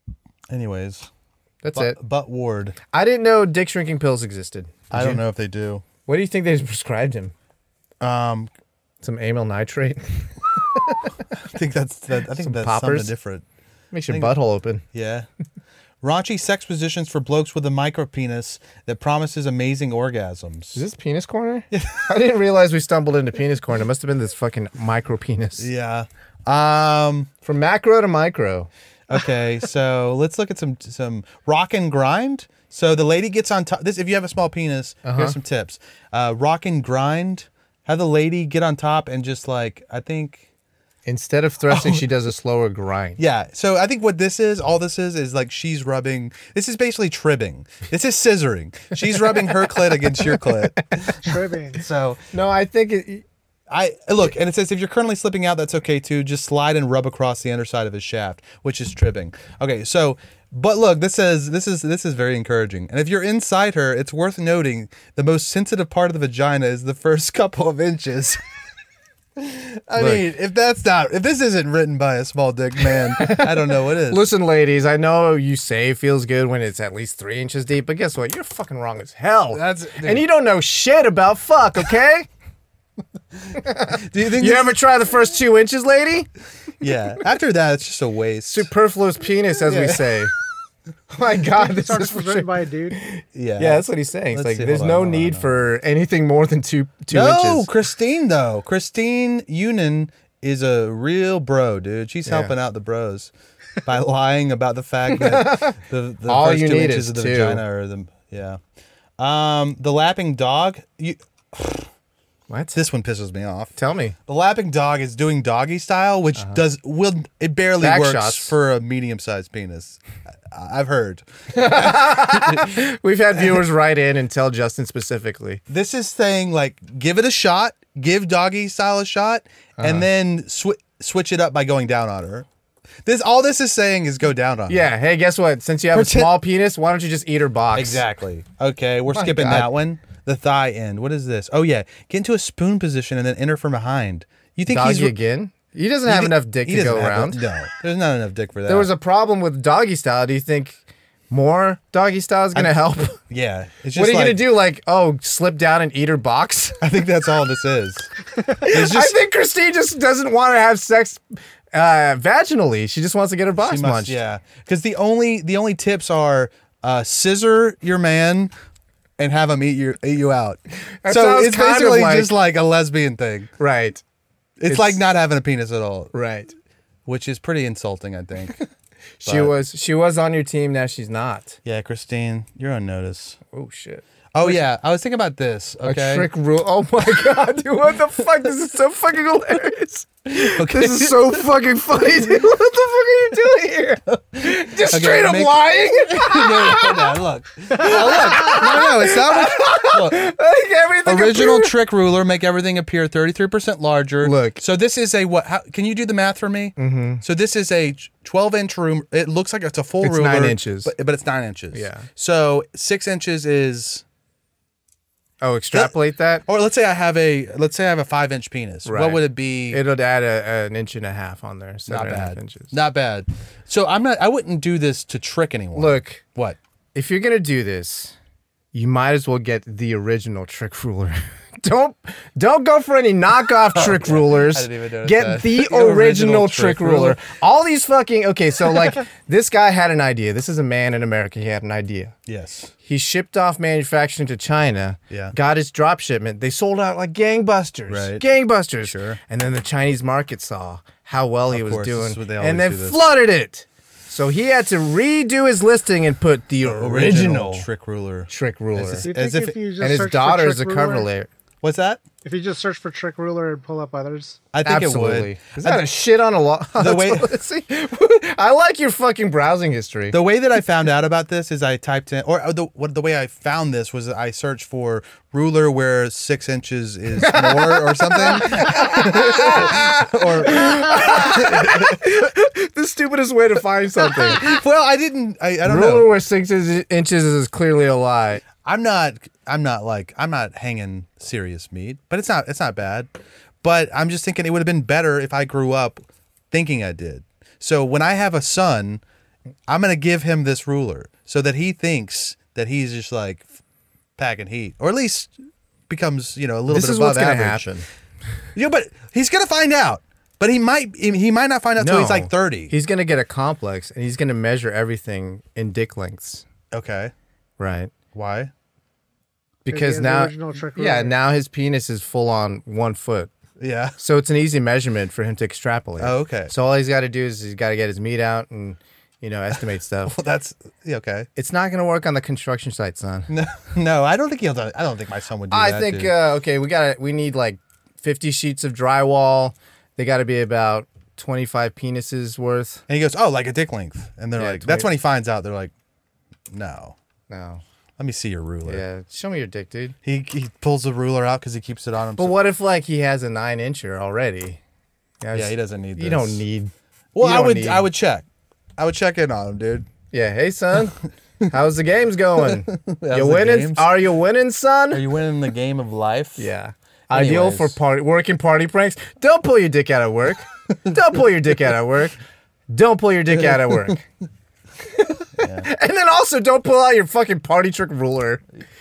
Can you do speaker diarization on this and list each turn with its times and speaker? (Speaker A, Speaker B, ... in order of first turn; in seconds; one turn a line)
Speaker A: 0.5-1.1
Speaker B: 1.6-2.0
Speaker A: 1.7-2.8
Speaker B: 2.9-5.2
Speaker A: 4.9-5.8
Speaker B: 6.1-7.3
Speaker A: 8.0-8.5
Speaker B: 9.0-11.2
Speaker A: 11.4-13.4
Speaker B: 12.3-13.1
Speaker B: 13.9-14.8
Speaker A: 14.1-14.3
Speaker A: 14.9-15.3
Speaker A: 16.0-20.8
Speaker B: 20.7-25.7
Speaker A: 21.7-22.1
Speaker A: 25.6-27.3
Speaker B: 27.4-28.7
Speaker A: 29.1-40.5
Speaker B: 35.0-35.4
Speaker B: 41.0-43.2
Speaker A: 41.7-42.0
Speaker A: 43.2-51.2
Speaker B: 49.4-51.1
Speaker C: 51.2-51.8
Speaker A: 51.8-52.2
Speaker B: 52.3-53.2
Speaker A: 53.7-68.4
Speaker A: 69.4-74.3
Speaker B: 70.0-70.3
Speaker B: 72.8-82.3
Speaker A: 79.5-80.2
Speaker A: 83.5-84.8
Speaker B: 83.6-86.3
Speaker A: 86.8-88.7
Speaker B: 88.5-90.3
Speaker A: 89.7-90.3
Speaker B: 91.1-97.7
Speaker C: 91.6-93.0
Speaker A: 93.3-95.7
Speaker A: 97.1-103.3
Speaker B: 102.2-102.5
Speaker A: 103.8-108.6
Speaker B: 105.1-107.6
Speaker A: 109.2-111.9
Speaker B: 112.5-112.8
Speaker A: 112.8-113.8
Speaker B: 113.8-114.2
Speaker A: 114.3-122.8
Speaker B: 116.4-116.6
Speaker B: 117.8-118.5
Speaker B: 121.5-125.6
Speaker A: 125.7-132.5
Speaker B: 129.8-130.1
Speaker A: 133.1-134.9
Speaker B: 134.7-138.0
Speaker A: 135.9-136.4
Speaker A: 137.7-145.2
Speaker B: 139.1-139.7
Speaker B: 144.7-147.4
Speaker A: 146.1-148.9
Speaker B: 148.7-150.8
Speaker B: 151.3-153.2
Speaker A: 152.5-154.5
Speaker B: 153.9-156.8
Speaker A: 156.8-158.1
Speaker B: 158.6-164.2
Speaker A: 158.6-159.2
Speaker A: 163.6-168.5
Speaker A: 169.2-173.5
Speaker B: 171.0-172.3
Speaker B: 173.6-174.0
Speaker A: 174.6-176.1
Speaker B: 174.7-175.0
Speaker B: 176.1-176.5
Speaker A: 177.1-178.7
Speaker B: 179.2-181.6
Speaker A: 179.2-179.5
Speaker A: 181.7-183.4
Speaker B: 183.5-184.6
Speaker A: 184.3-186.3
Speaker B: 185.8-201.8
Speaker A: 190.3-191.4
Speaker A: 194.1-200.3
Speaker A: 201.1-214.0
Speaker B: 204.2-204.6
Speaker B: 206.8-207.2
Speaker B: 210.0-210.9
Speaker B: 211.7-212.1
Speaker B: 215.4-216.4
Speaker A: 215.7-219.8
Speaker B: 218.8-222.8
Speaker A: 221.9-226.6
Speaker B: 225.8-226.2
Speaker B: 226.9-228.2
Speaker B: 228.7-242.2
Speaker A: 233.7-237.2
Speaker A: 242.3-242.7
Speaker B: 242.8-257.7
Speaker A: 247.9-248.2
Speaker A: 248.8-249.2
Speaker A: 251.5-253.0
Speaker A: 256.6-259.6
Speaker B: 258.3-259.1
Speaker C: 259.0-261.1
Speaker B: 259.8-261.3
Speaker A: 261.6-262.0
Speaker C: 262.2-264.4
Speaker A: 264.5-265.9
Speaker B: 264.6-270.2
Speaker A: 266.8-267.3
Speaker A: 270.1-282.0
Speaker B: 277.2-284.6
Speaker A: 284.1-286.1
Speaker B: 285.6-288.4
Speaker A: 288.6-293.1
Speaker A: 293.6-299.0
Speaker A: 299.7-303.5
Speaker A: 304.2-305.3
Speaker A: 305.9-307.7
Speaker B: 306.7-307.9
Speaker A: 308.6-312.8
Speaker B: 311.8-316.4
Speaker A: 316.7-317.1
Speaker B: 317.6-317.9
Speaker A: 318.1-318.5
Speaker B: 319.6-323.3
Speaker C: 319.7-321.1
Speaker A: 323.6-324.0
Speaker B: 324.0-330.2
Speaker A: 326.0-326.5
Speaker A: 330.1-331.3
Speaker B: 331.4-333.3
Speaker A: 333.3-336.2
Speaker B: 335.5-342.8
Speaker A: 342.9-345.7
Speaker B: 344.4-344.9
Speaker A: 346.5-347.0
Speaker B: 347.3-347.6
Speaker A: 348.0-348.9
Speaker B: 348.6-350.0
Speaker A: 350.0-352.4
Speaker B: 352.2-354.6
Speaker B: 355.2-357.9
Speaker A: 355.3-356.4
Speaker A: 357.1-358.3
Speaker A: 358.8-359.9
Speaker B: 360.1-361.0
Speaker B: 361.5-365.1
Speaker A: 362.4-364.0
Speaker A: 364.9-366.5
Speaker B: 366.4-372.2
Speaker A: 367.1-367.8
Speaker B: 372.7-374.1
Speaker B: 374.8-378.4
Speaker A: 375.4-375.7